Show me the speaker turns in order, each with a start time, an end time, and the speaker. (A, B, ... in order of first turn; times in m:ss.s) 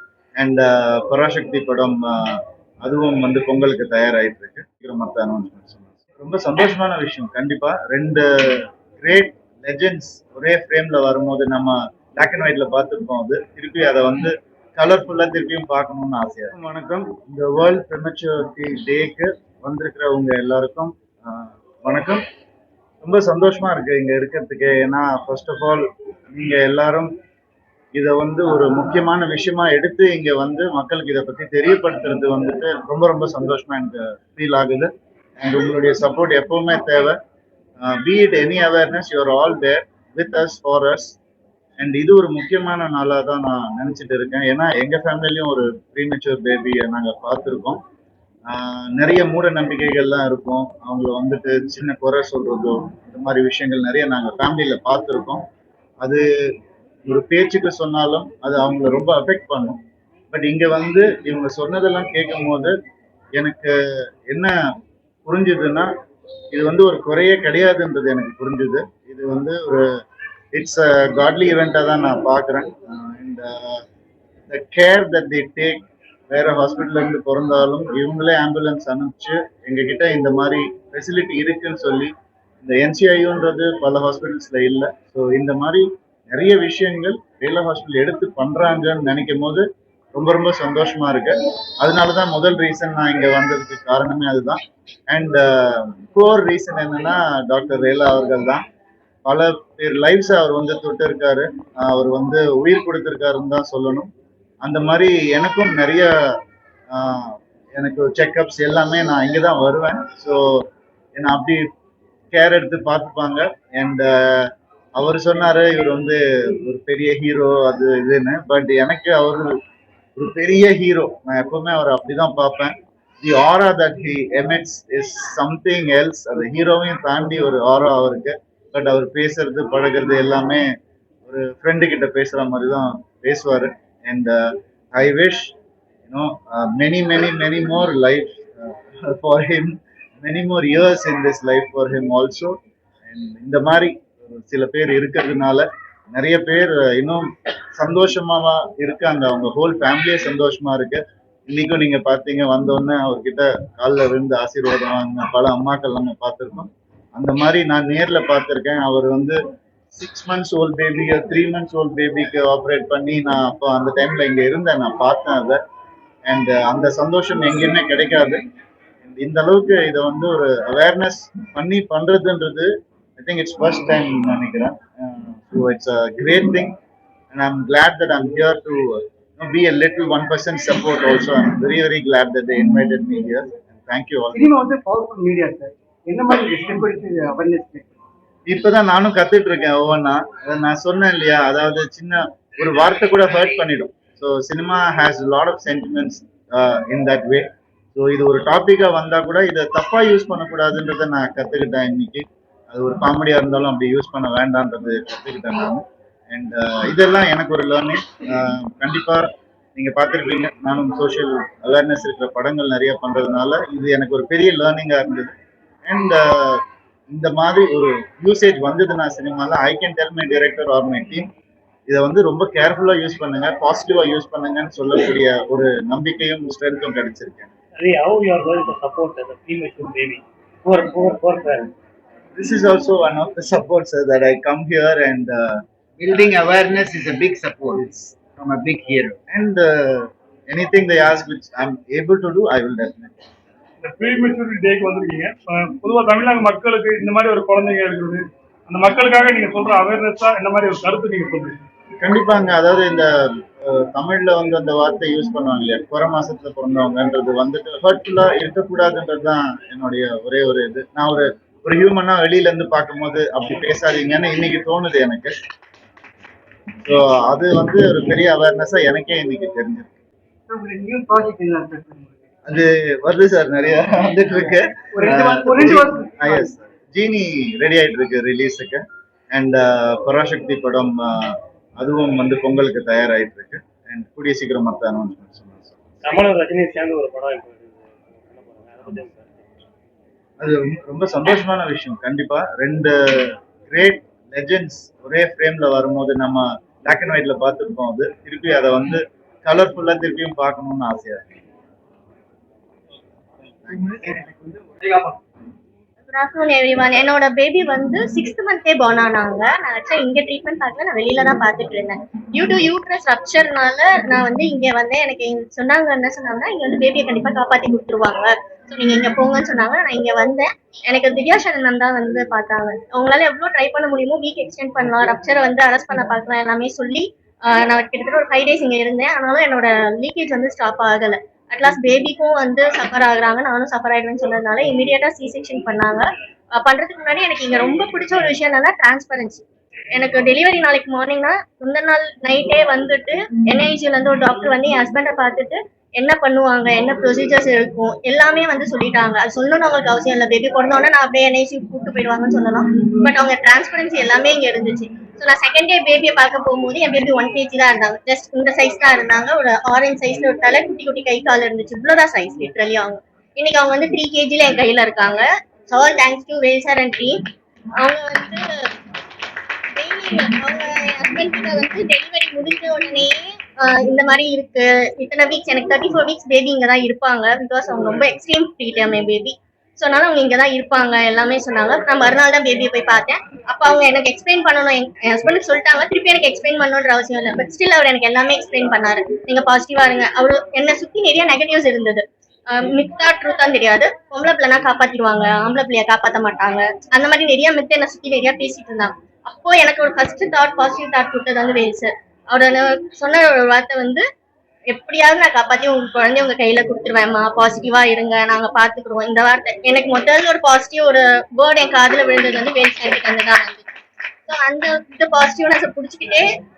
0:00.4-0:22.2 A
0:23.0-0:27.1 A
0:28.0-0:37.2 A
0:37.8-0:41.2 A
0:41.8-0:47.8 A
0:48.5-0:55.4 A
0:57.1-0:59.8 A
1:00.3-1:02.8 A
1:03.4-1:03.7 A
1:04.3-1:04.6 A
1:05.2-1:05.9 A
1:06.5-1:09.8 A
1:10.5-1:13.8 A
1:14.5-1:38.6 A
1:39.2-1:44.1 A
1:44.6-1:46.1 A
1:46.9-1:51.7 A
1:52.3-1:59.5 A
2:00.2-2:10.7 A
2:11.3-2:14.4 A
2:14.9-2:15.6 A
2:16.1-2:39.4 A
2:39.9-2:45.6 A
2:46.3-2:48.4 A
2:49.0-2:56.7 A
2:57.3-3:04.5 A
3:04.3-3:07.9 B
3:08.5-3:35.3 A
3:35.9-3:41.3 A
3:41.9-3:47.5 A
3:47.8-3:51.7 C
3:52.4-3:55.6 A
3:56.0-3:59.2 D
3:59.3-4:03.1 A
4:03.8-4:11.6 E
4:12.0-4:25.4 A
4:26.8-4:30.0 A
4:30.5-4:32.2 B
4:32.5-4:38.8 A
4:35.0-4:36.5 B
4:39.3-4:46.1 A
4:46.0-4:49.5 C
4:50.4-5:01.3 A
5:03.7-5:04.2 A
5:04.3-5:05.1 C
5:06.1-6:07.2 F
6:07.8-6:08.5 F
6:09.8-6:44.0 F
6:44.7-6:53.7 F
6:54.3-6:56.3 F